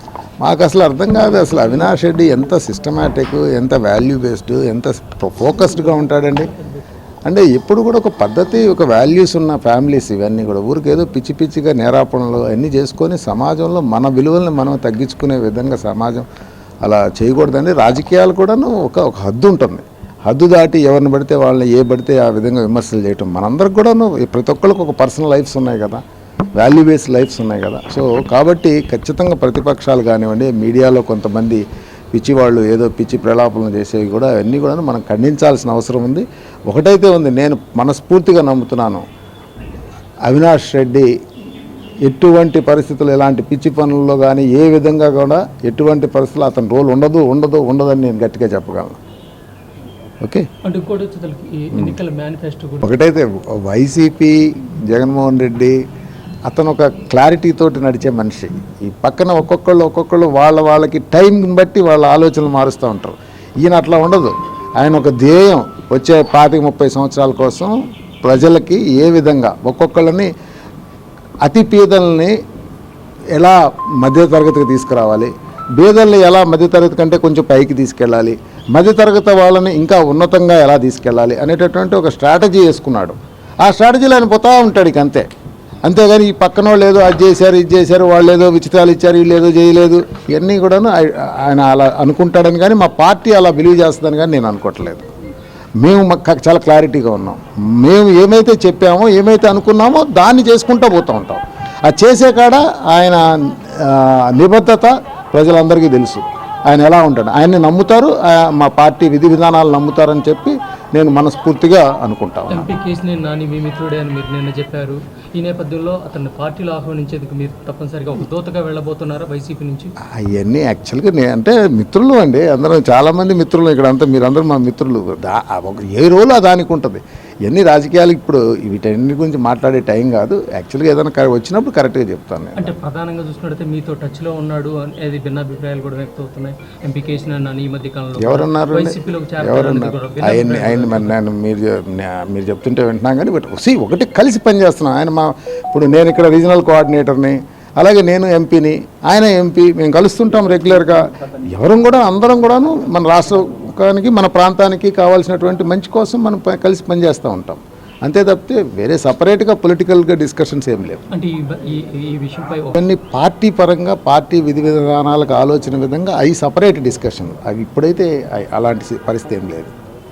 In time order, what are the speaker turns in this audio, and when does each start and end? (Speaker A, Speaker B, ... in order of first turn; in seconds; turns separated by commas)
Speaker A: 0.4-6.5, Speaker A: 7.2-16.3, Speaker A: 16.8-26.0, Speaker A: 26.6-39.0, Speaker A: 40.2-41.1, Speaker A: 42.0-49.0, Speaker A: 50.2-50.5, Speaker B: 50.6-53.0, Speaker A: 52.8-55.8, Speaker A: 56.5-70.3, Speaker A: 71.4-72.3, Speaker A: 73.3-85.2, Speaker A: 85.8-95.1, Speaker A: 95.8-112.7, Speaker B: 112.5-119.9, Speaker A: 120.2-132.7, Speaker B: 132.6-141.2, Speaker A: 138.2-161.0, Speaker B: 161.1-162.8, Speaker A: 162.8-169.7